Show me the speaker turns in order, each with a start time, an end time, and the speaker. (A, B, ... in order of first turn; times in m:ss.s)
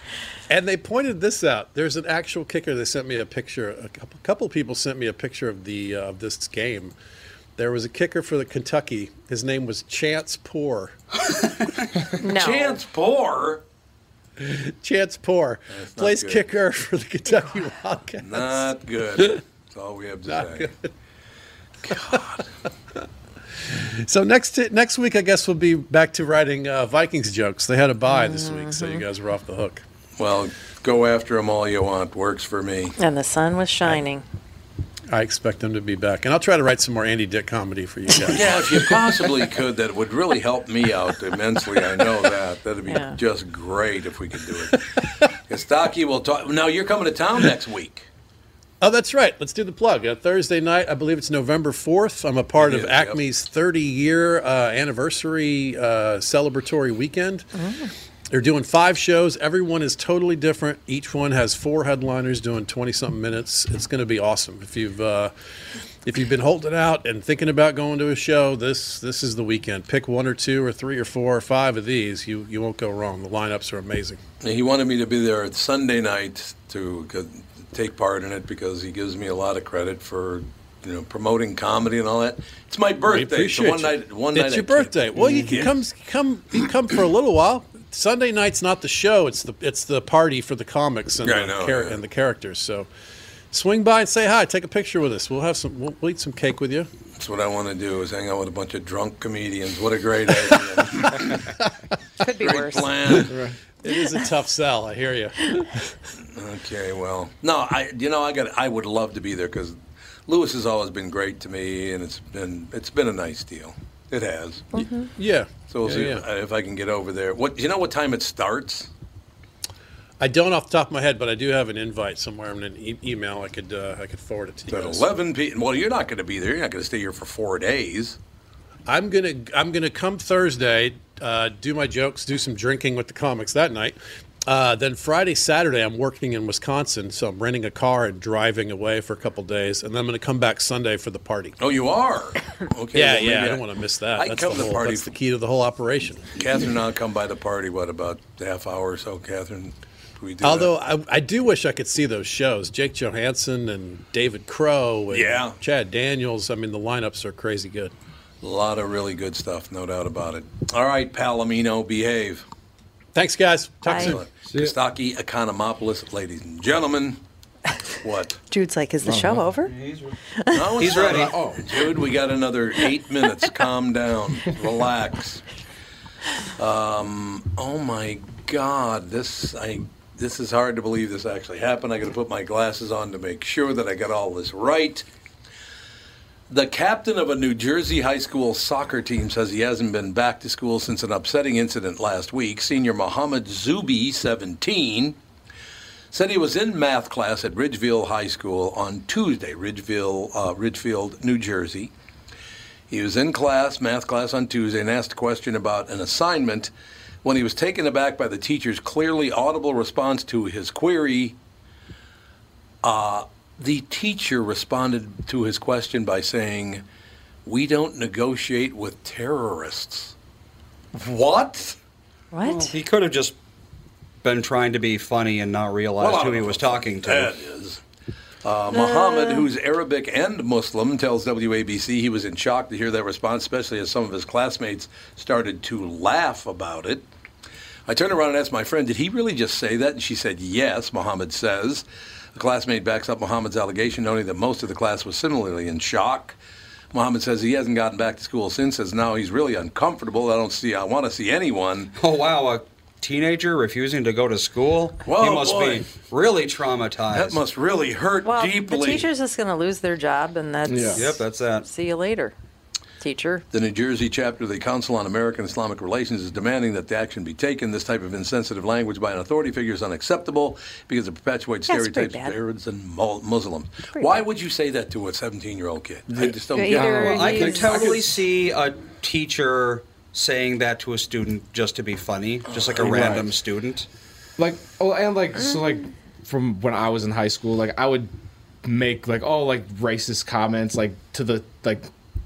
0:00.5-0:06.9 A
0:07.6-0:10.9 A
0:12.2-0:12.8 B
0:12.2-0:13.6 C
0:14.4-0:19.4 A
0:15.7-0:16.4 C
0:18.2-0:20.7 C
0:20.3-0:20.9 A
0:21.8-0:22.5 C
0:21.9-0:22.2 A
0:23.6-0:29.8 A
0:28.1-0:29.0 B
0:30.2-0:33.0 C
0:33.0-0:34.2 B
0:35.1-0:38.9 A
0:38.3-0:48.1 C
0:42.9-0:43.2 B
0:48.8-0:57.5 A
0:52.6-0:53.2 C
0:57.6-0:57.9 B
0:58.3-1:05.3 A
1:06.0-1:14.2 A
1:14.4-1:25.7 C
1:23.1-1:32.9 A
1:25.2-1:25.6 D
1:31.2-1:32.0 C
1:33.5-1:36.9 A
1:37.2-1:41.5 C
1:40.4-1:41.0 A
1:42.2-1:42.9 B
1:42.4-1:43.3 C
1:43.3-1:45.9 A
1:46.3-1:54.8 C
1:54.8-1:55.1 B
1:55.2-1:56.3 A
1:55.7-1:58.9 C
2:00.2-2:05.0 A
2:04.7-2:08.2 C
2:08.9-2:21.6 A
2:21.6-2:25.1 C
2:22.9-2:26.3 A
2:26.4-2:30.7 C
2:30.4-2:37.9 A
2:35.1-2:35.6 C
2:38.4-2:42.5 C
2:43.2-2:44.2 A
2:43.9-2:44.2 B
2:43.9-2:47.2 C
2:44.5-2:44.8 E
2:48.0-2:48.4 C
2:48.5-2:49.7 B
2:49.0-2:49.5 E
2:49.7-2:50.2 D
2:50.3-2:50.6 B
2:50.5-2:55.4 C
2:50.8-2:51.4 D
2:51.1-2:51.6 E
2:56.6-3:05.1 C
3:06.5-3:15.2 C
3:16.1-3:21.9 C
3:22.9-3:26.7 C
3:27.2-3:31.4 C
3:32.8-3:36.8 C
3:37.4-3:40.1 C
3:41.0-3:41.8 C
3:42.3-3:42.7 B
3:42.4-3:43.4 D
3:44.2-3:47.3 D
3:46.0-3:47.8 C
3:48.4-3:57.1 C
3:48.7-3:49.5 B
3:57.9-4:06.4 C
4:06.9-4:11.9 C
4:12.0-4:17.4 D
4:15.0-4:15.9 C
4:17.1-4:19.1 C
4:18.2-4:22.4 B
4:20.7-4:21.0 E
4:20.9-4:21.7 D
4:23.0-4:23.4 B
4:23.5-4:37.0 C
4:31.7-4:32.4 B
4:36.1-4:38.0 E
4:36.5-4:37.9 B
4:36.8-4:43.9 D
4:42.5-4:43.2 C
4:42.8-4:43.3 E
4:44.4-4:51.9 E